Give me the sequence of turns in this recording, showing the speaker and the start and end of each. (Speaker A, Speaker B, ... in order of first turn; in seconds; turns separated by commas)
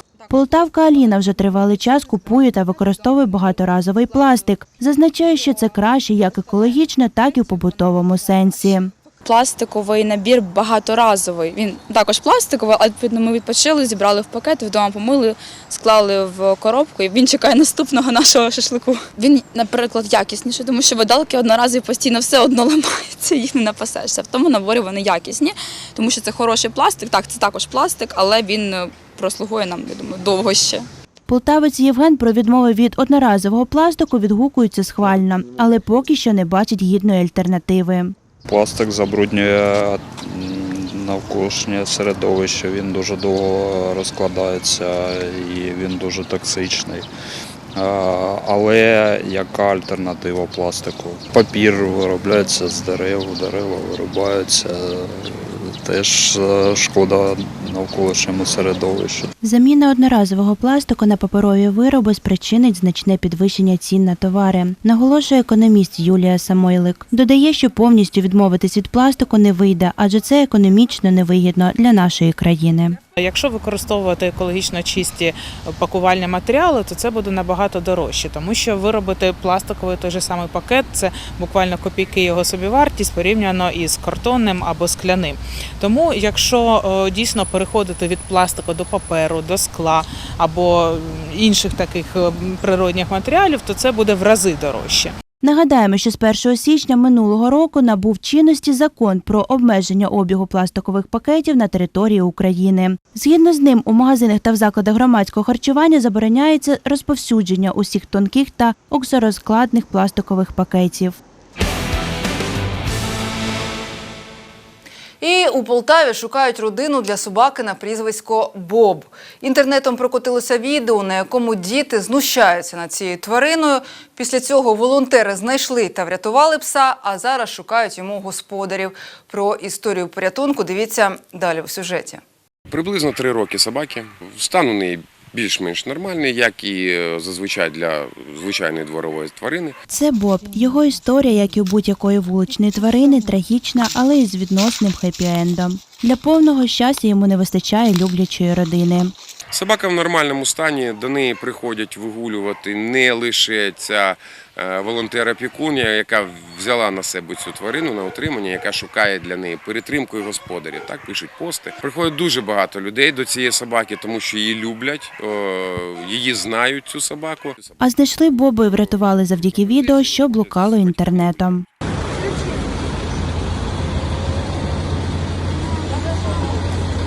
Speaker A: 0.3-8.9, Speaker B: 9.2-30.9, Speaker A: 31.3-38.1, Speaker C: 38.5-47.1, Speaker C: 47.7-59.3, Speaker A: 59.4-73.0, Speaker D: 73.2-95.1, Speaker A: 95.4-111.2, Speaker E: 115.2-132.2, Speaker F: 132.7-139.7, Speaker A: 139.9-149.1, Speaker F: 149.5-167.6, Speaker A: 167.8-171.6